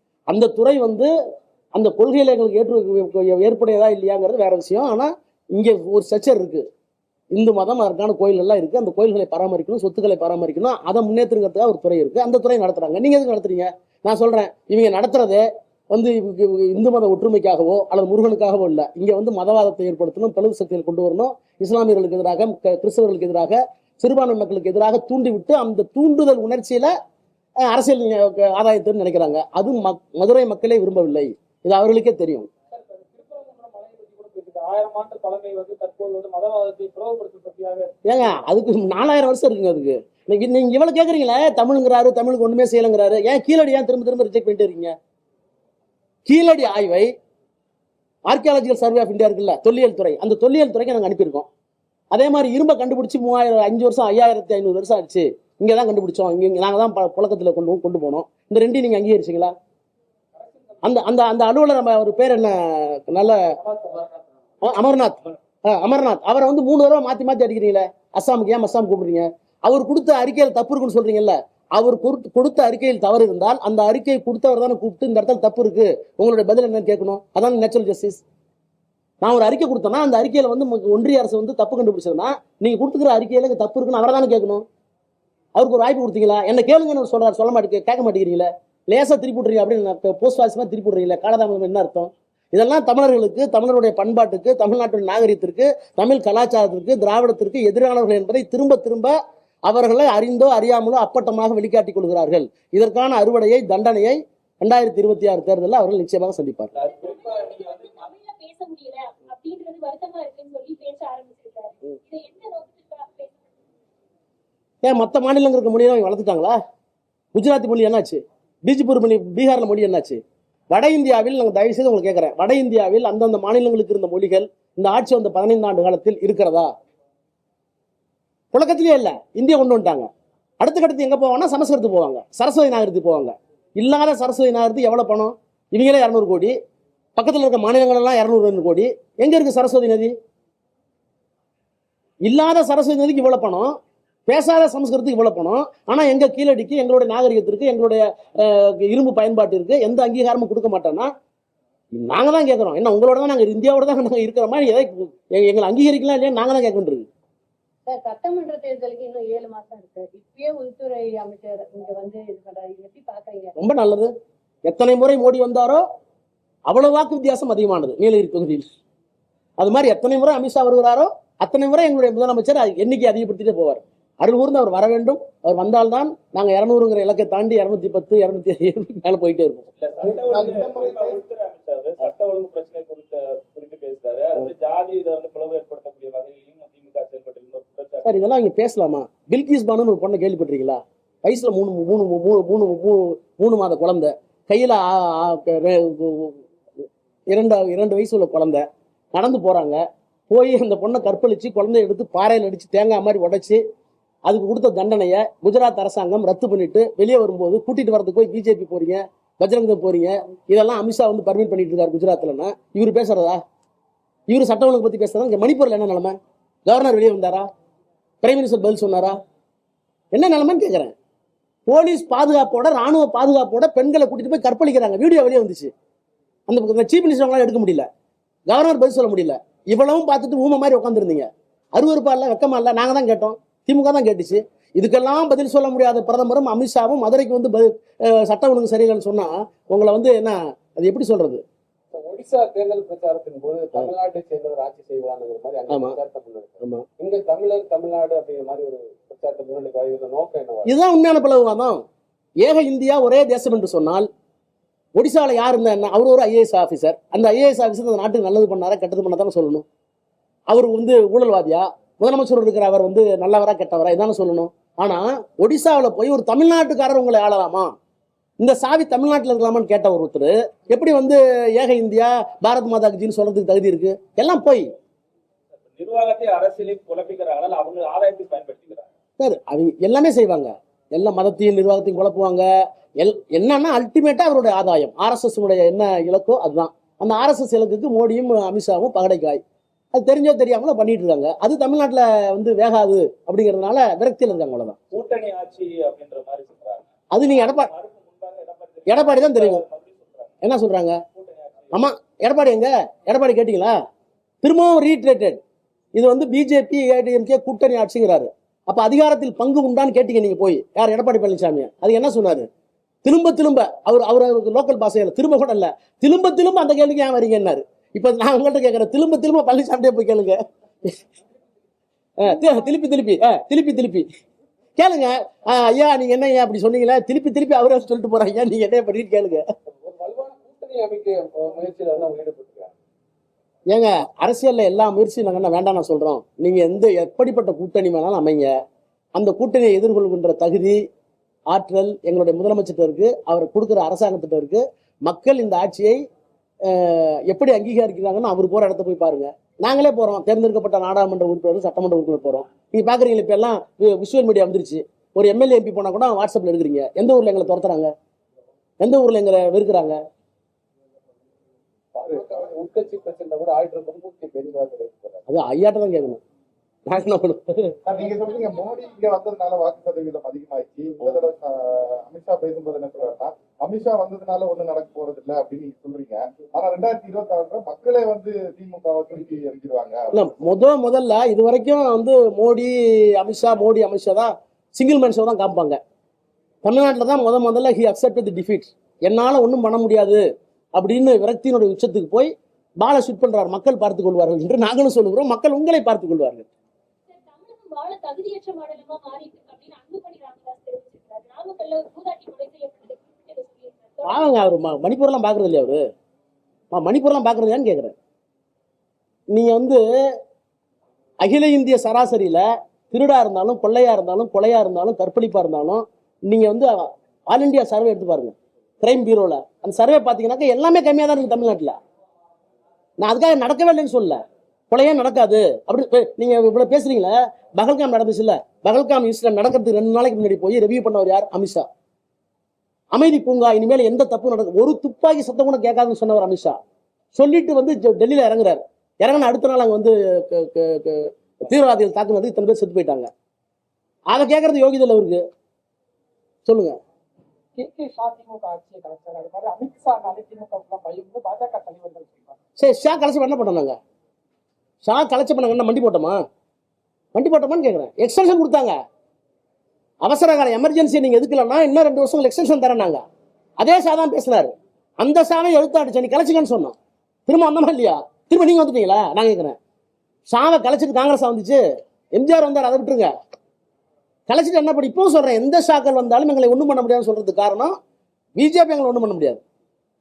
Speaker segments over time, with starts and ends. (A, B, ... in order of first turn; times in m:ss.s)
0:00.3-0:01.1 A
0:01.8-0:06.6 A
0:07.3-0:26.9 A
0:27.6-0:32.5 A
0:32.7-0:37.9 B
0:38.0-0:44.9 A
0:46.3-0:47.1 A
0:48.3-0:51.5 A
0:52.1-0:59.5 A
1:00.4-1:00.9 B
1:00.8-1:03.4 A
1:03.6-1:04.2 B
1:04.6-1:18.2 A
1:19.2-1:24.6 A
1:25.6-1:46.7 A
1:46.7-1:48.1 C
1:46.8-1:53.8 D
1:54.8-1:56.6 A
1:57.3-2:00.2 A
2:00.7-2:06.7 A
2:08.5-2:10.1 A
2:10.6-2:16.5 A
2:17.2-2:20.1 A
2:22.3-2:23.7 A
2:24.3-2:31.1 A
2:32.0-2:37.1 A
2:37.9-2:43.5 E
2:43.6-2:44.1 A
2:44.7-2:45.8 A
2:46.7-2:48.7 A
2:49.6-2:59.7 A
2:59.8-3:08.2 C
3:00.0-3:01.2 F
3:08.0-3:16.4 A
3:17.3-3:23.6 A
3:24.3-3:33.4 A
3:34.3-3:36.2 A
3:36.7-3:37.5 A
3:38.2-3:39.2 A
3:40.1-3:40.9 A
3:41.7-3:45.7 A
3:46.5-3:47.9 A
3:48.5-4:01.4 A
4:01.9-4:10.7 G
4:05.7-4:06.0 A
4:10.7-4:11.8 A
4:12.4-4:14.1 A
4:15.0-4:19.6 A
4:20.5-4:27.7 A
4:28.4-4:34.6 A
4:35.6-4:38.9 C
4:39.2-4:42.5 A
4:43.0-4:49.4 A
4:49.9-4:54.8 A
4:54.9-5:00.4 C
4:57.1-4:57.7 A
4:58.9-4:59.6 A
5:00.4-5:01.0 A
5:01.1-5:01.8 C
5:01.7-5:03.7 A
5:04.4-5:05.4 A
5:06.0-5:12.5 A
5:13.0-5:21.0 A
5:22.2-5:24.1 A
5:24.8-5:29.4 A
5:29.8-5:32.7 G
5:33.7-5:38.5 A
5:39.2-5:40.8 A
5:41.5-5:46.0 A
5:46.7-5:57.9 A
5:58.8-6:00.0 A
6:02.0-6:05.2 G
6:05.3-6:06.2 A
6:06.9-6:07.8 A
6:07.9-6:20.2 F
6:08.0-6:09.0 D
6:20.1-6:25.8 A
6:26.6-6:30.2 A
6:30.8-6:36.5 A
6:37.1-6:44.4 D
6:44.1-6:45.8 A
6:46.7-6:47.9 A
6:49.3-6:49.8 A
6:51.2-7:01.8 A
7:03.0-7:11.7 A
7:12.9-7:16.6 A
7:17.2-7:23.1 A
7:24.1-7:25.2 A
7:26.5-7:26.8 A
7:27.6-7:32.4 B
7:32.6-7:33.8 A
7:34.8-7:36.2 A
7:37.2-7:38.8 A
7:40.0-7:43.0 A
7:43.6-7:46.8 A
7:47.3-7:49.6 A
7:50.3-7:51.6 A
7:52.2-7:53.1 A
7:54.3-7:57.8 A
7:58.4-7:59.4 A